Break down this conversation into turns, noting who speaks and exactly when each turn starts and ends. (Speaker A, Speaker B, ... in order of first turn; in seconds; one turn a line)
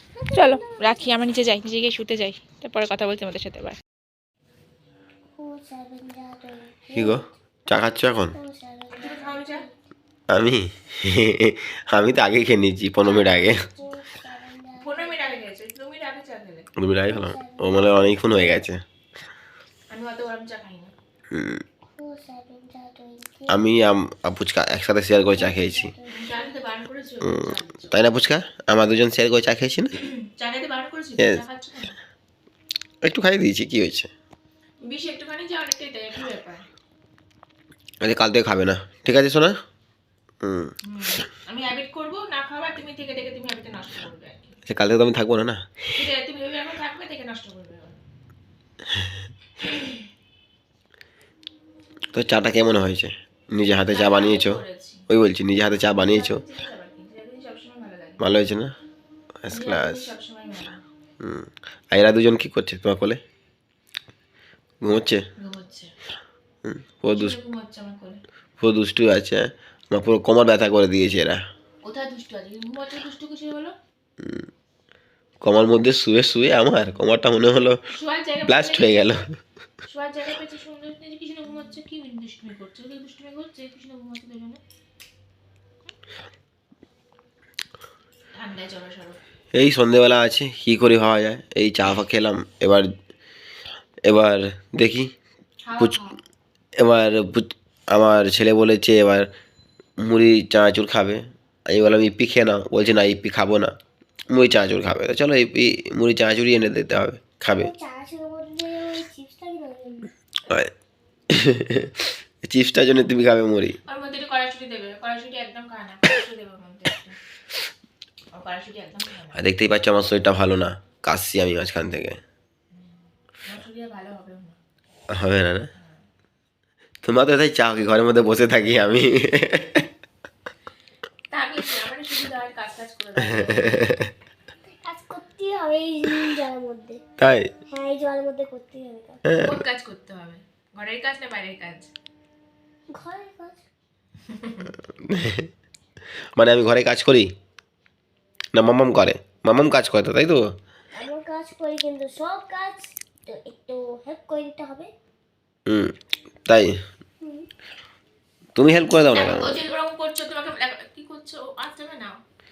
Speaker A: 0.1-1.2
Speaker B: 0.3-3.8
Speaker A: 5.3-7.3
Speaker C: 6.9-8.3
Speaker A: 8.3-9.7
Speaker B: 9.0-9.7
Speaker C: 10.3-13.6
Speaker A: 13.0-15.2
Speaker B: 14.8-16.7
Speaker C: 16.8-18.8
Speaker A: 17.1-18.6
Speaker B: 19.9-20.9
Speaker C: 21.3-21.6
Speaker A: 21.9-23.6
Speaker C: 23.5-25.9
Speaker A: 25.3-26.5
Speaker B: 26.1-28.0
Speaker C: 27.2-29.9
Speaker B: 30.0-32.0
Speaker C: 31.2-31.4
Speaker C: 33.0-34.1
Speaker B: 34.8-36.6
Speaker C: 38.0-39.5
Speaker C: 40.4-40.7
Speaker B: 40.9-44.5
Speaker C: 44.7-45.8
Speaker B: 45.9-48.0
Speaker B: 49.6-50.0
Speaker C: 52.1-56.4
Speaker B: 53.9-55.0
Speaker B: 56.0-58.2
Speaker C: 58.2-58.7
Speaker C: 59.4-60.1
Speaker B: 59.5-60.8
Speaker C: 61.2-63.2
Speaker C: 64.8-65.2
Speaker B: 65.4-65.9
Speaker C: 66.6-67.3
Speaker B: 67.1-68.2
Speaker C: 68.6-71.4
Speaker B: 71.8-73.7
Speaker C: 74.2-74.5
Speaker C: 75.4-77.8
Speaker B: 77.9-79.1
Speaker C: 78.5-79.3
Speaker B: 79.8-84.6
Speaker B: 88.3-89.2
Speaker C: 89.5-92.9
Speaker C: 94.0-95.1
Speaker B: 95.6-96.2
Speaker C: 96.8-99.3
Speaker C: 100.0-103.7
Speaker C: 104.3-107.7
Speaker A: 107.5-110.1
Speaker C: 111.3-113.8
Speaker B: 113.9-117.2
Speaker B: 118.3-119.4
Speaker C: 119.3-122.2
Speaker B: 122.7-124.6
Speaker C: 125.1-125.7
Speaker C: 127.0-129.8
Speaker B: 131.3-133.9
Speaker C: 133.4-134.1
Speaker A: 134.7-137.0
Speaker C: 137.2-137.5
Speaker A: 137.7-139.2
Speaker C: 139.2-139.6
Speaker B: 139.3-141.9
Speaker A: 142.9-143.6
Speaker B: 144.3-144.7
Speaker C: 144.9-145.5
Speaker C: 146.3-147.3
Speaker C: 148.5-150.4
Speaker A: 150.9-154.9
Speaker C: 155.7-155.9
Speaker C: 156.5-156.8
Speaker A: 157.2-157.5
Speaker C: 158.6-159.6
Speaker B: 159.0-162.2